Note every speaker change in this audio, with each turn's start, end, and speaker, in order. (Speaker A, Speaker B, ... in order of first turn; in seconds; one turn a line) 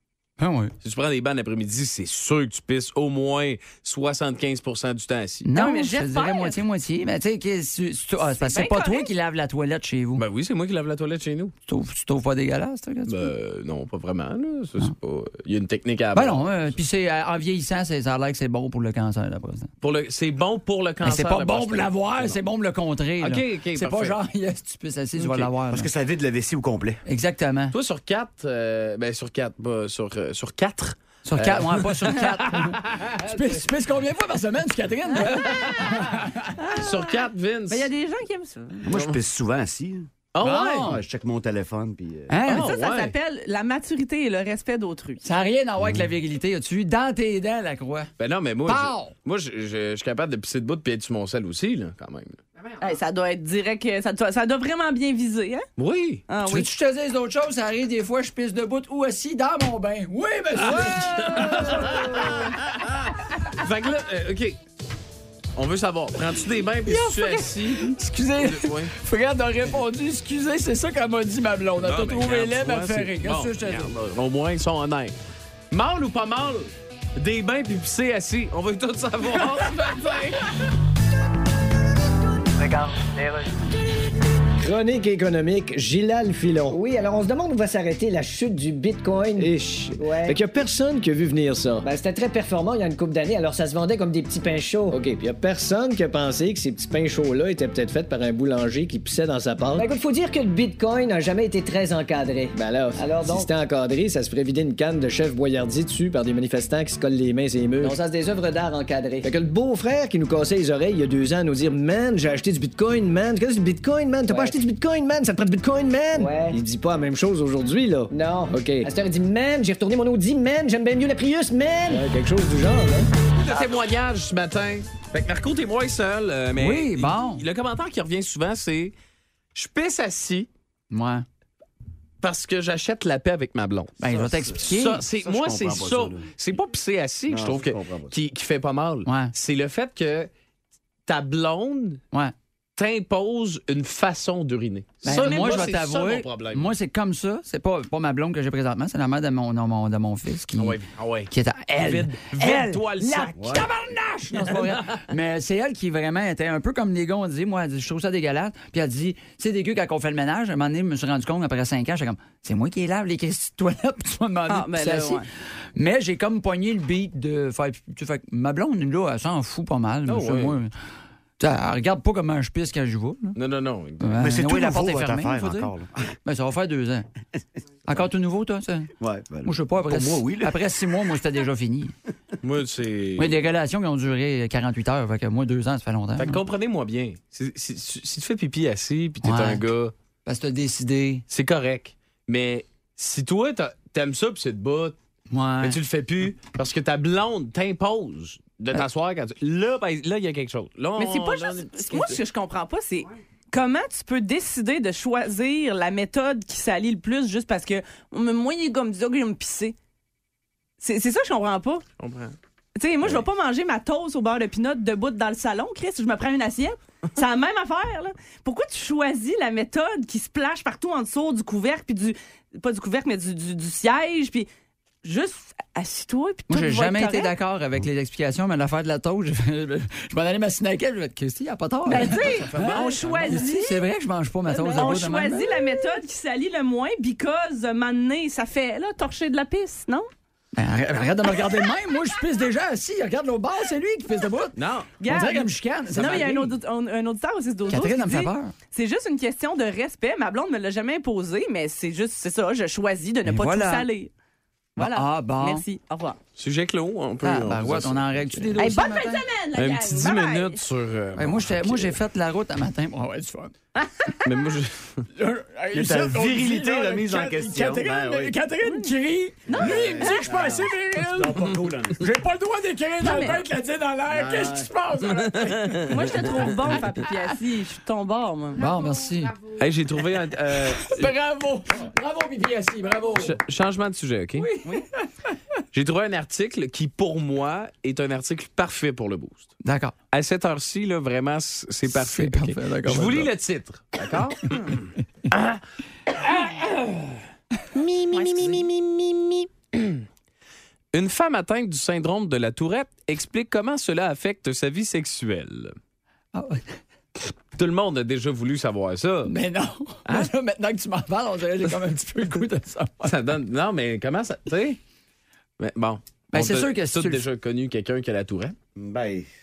Speaker A: 0.4-0.7
Speaker B: 0.8-5.5
Speaker A: 5.4-10.2
Speaker C: 5.5-6.6
Speaker C: 8.3-9.1
Speaker B: 10.2-11.5
Speaker A: 11.7-13.3
Speaker B: 13.1-16.4
Speaker A: 16.1-19.7
Speaker B: 19.8-22.3
Speaker A: 21.0-25.9
Speaker B: 23.2-24.2
Speaker B: 25.2-25.5
Speaker D: 25.7-27.0
Speaker A: 27.1-27.8
Speaker B: 27.7-33.5
Speaker A: 31.2-36.5
Speaker C: 35.4-36.0
Speaker C: 36.6-37.1
Speaker B: 36.8-37.9
Speaker C: 37.7-38.8
Speaker D: 38.8-40.1
Speaker B: 38.9-39.2
Speaker B: 40.3-41.0
Speaker A: 40.4-41.0
Speaker D: 40.8-42.4
Speaker A: 42.3-42.7
Speaker B: 42.4-43.1
Speaker C: 42.5-45.2
Speaker A: 45.2-48.1
Speaker B: 48.2-52.4
Speaker A: 48.6-49.1
Speaker C: 52.8-55.6
Speaker B: 55.8-56.2
Speaker C: 56.3-56.7
Speaker A: 56.4-62.5
Speaker B: 60.6-64.6
Speaker B: 65.5-68.9
Speaker A: 66.8-73.9
Speaker B: 71.8-75.1
Speaker B: 75.7-80.5
Speaker E: 82.6-83.4
Speaker F: 84.6-86.8
Speaker E: 86.7-90.4
Speaker F: 89.4-91.9
Speaker E: 91.8-95.0
Speaker F: 94.9-99.9
Speaker E: 99.8-103.5
Speaker F: 102.5-108.0
Speaker E: 107.8-109.3
Speaker F: 109.2-118.9
Speaker E: 114.3-114.6
Speaker E: 116.1-116.6
Speaker E: 118.1-122.1
Speaker F: 121.9-123.1
Speaker B: 123.4-128.9
Speaker A: 126.5-127.4
Speaker B: 129.5-130.5
Speaker A: 130.9-131.2
Speaker B: 132.2-134.0
Speaker A: 134.0-135.1
Speaker D: 134.1-134.6
Speaker B: 134.6-140.3
Speaker D: 135.2-136.2
Speaker D: 137.3-138.1
Speaker A: 139.1-139.3
Speaker B: 141.1-142.0
Speaker B: 142.8-146.7
Speaker A: 145.0-150.8
Speaker B: 150.6-153.6
Speaker A: 151.3-165.2
Speaker D: 153.4-153.7
Speaker B: 154.4-155.0
Speaker C: 164.5-165.2
Speaker A: 165.7-170.7
Speaker B: 170.1-170.6
Speaker A: 171.4-173.4
Speaker B: 173.3-174.2
Speaker A: 174.0-175.7
Speaker D: 174.2-176.1
Speaker A: 176.2-177.1
Speaker A: 177.9-178.9
Speaker D: 179.0-180.6
Speaker A: 179.4-181.9
Speaker B: 182.4-183.4
Speaker A: 183.2-186.4
Speaker B: 186.2-189.9
Speaker A: 189.2-189.6
Speaker A: 190.2-191.2
Speaker B: 191.3-194.9
Speaker A: 195.3-195.8
Speaker B: 195.6-202.2
Speaker C: 201.0-209.7
Speaker C: 210.8-211.8
Speaker B: 212.0-212.3
Speaker C: 212.8-224.5
Speaker C: 225.0-227.3
Speaker A: 226.5-235.8
Speaker C: 231.9-233.8
Speaker B: 232.0-233.4
Speaker C: 234.6-240.1
Speaker A: 240.5-246.6
Speaker B: 244.6-244.9
Speaker C: 245.0-254.1
Speaker A: 247.7-248.5
Speaker A: 253.2-253.9
Speaker A: 254.8-255.6
Speaker C: 254.8-256.2
Speaker B: 256.4-258.6
Speaker A: 257.2-259.2
Speaker C: 258.6-260.6
Speaker B: 259.6-262.0
Speaker A: 261.1-263.5
Speaker B: 264.2-265.1
Speaker A: 265.1-276.7
Speaker D: 265.7-268.4
Speaker C: 268.6-268.9
Speaker C: 269.4-270.2
Speaker D: 269.5-272.1
Speaker C: 273.0-273.4
Speaker D: 274.1-274.7
Speaker B: 275.1-276.5
Speaker C: 275.9-278.7
Speaker A: 278.6-279.6
Speaker B: 279.6-281.1
Speaker A: 280.7-283.4
Speaker B: 283.1-284.5
Speaker A: 284.4-284.8
Speaker B: 285.7-289.5
Speaker A: 289.6-289.9
Speaker B: 290.1-295.6
Speaker A: 291.9-293.3
Speaker B: 296.3-296.8
Speaker B: 297.8-300.0
Speaker C: 298.1-298.6
Speaker B: 300.9-305.8
Speaker A: 306.3-306.6
Speaker B: 307.5-309.3
Speaker A: 309.2-313.2
Speaker B: 313.0-314.8
Speaker B: 315.6-318.5
Speaker A: 316.3-317.2
Speaker D: 318.8-319.3